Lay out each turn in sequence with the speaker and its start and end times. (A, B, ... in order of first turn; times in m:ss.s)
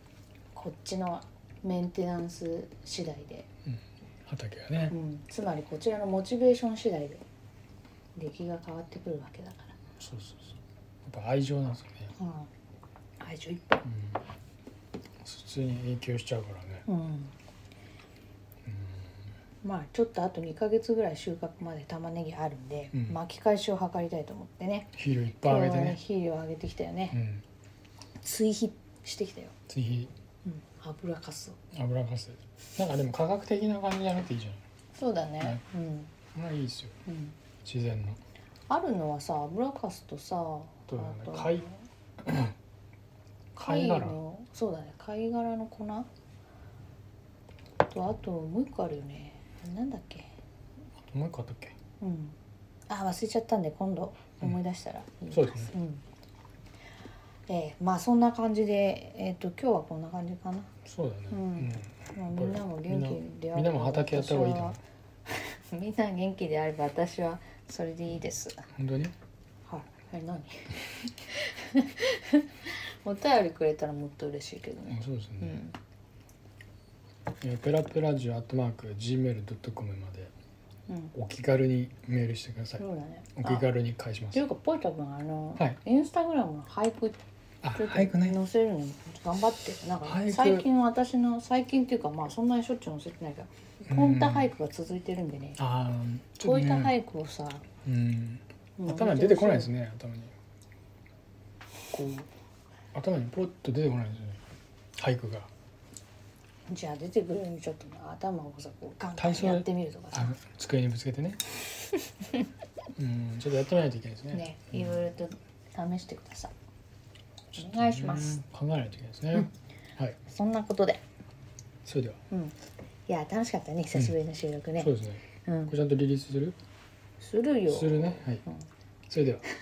0:00.5-0:03.5 A
0:03.7-0:05.0 B
0:04.9-0:07.2 A
0:08.2-0:09.7 A
0:10.0-0:12.1 B
0:12.2-0:12.5 A
0:13.2-0:13.8 A
0:13.8-0:14.2 B
0:15.2-0:16.9 B
0:16.9-0:17.3 A
0:18.6-0:19.2 B
0:19.6-0:27.2 A
0:22.9-0:23.2 B
0:24.9-0:26.0 B
0:27.1-0:27.4 B
0:28.2-0:29.5 A
0:29.7-0:30.1 B
0:30.4-0:31.6 A
0:31.7-0:34.6 B
0:35.0-0:36.1 A
0:36.3-0:37.0 B
0:37.1-0:37.3 A
0:37.6-0:38.2 B
0:38.7-0:41.8 A
0:40.9-0:41.7 B
0:42.2-0:42.6 B
0:43.6-0:46.1 A
0:43.6-0:44.2 B
0:47.9-0:50.3 A
0:51.0-0:51.7 B
0:52.0-0:52.4 A
0:52.9-0:56.0 A
0:55.3-0:55.7 B
0:57.5-1:00.7 A
1:00.9-1:04.8 B
1:01.3-1:08.6 A
1:08.8-1:09.2 B
1:09.7-1:15.8 A
1:14.9-1:15.6 B
1:17.4-1:20.3 B
1:20.9-1:21.2 A
1:21.2-1:22.8 B
1:22.8-1:23.7 A
1:23.4-1:24.4 B
1:24.3-1:27.2 A
1:27.6-1:28.4 B
1:27.8-1:35.6 A
1:30.0-1:30.7 B
1:33.8-1:34.5 B
1:35.6-1:36.9 B
1:36.4-1:37.6 A
1:37.8-1:40.3 B
1:38.8-1:39.7 A
1:41.9-1:42.3 B
1:42.9-1:44.4 B
1:45.0-1:45.5 B
1:46.7-1:50.4 A
1:49.2-1:51.5 B
1:53.0-1:55.0 B
1:54.3-1:56.5 A
1:57.5-1:58.4 A
1:57.6-2:00.2 B
2:00.2-2:01.0 A
2:01.8-2:02.2 B
2:03.1-2:04.9 A
2:04.8-2:06.6 B
2:05.5-2:05.7 A
2:07.2-2:08.7 A
2:07.7-2:08.4 B
2:09.1-2:09.4 B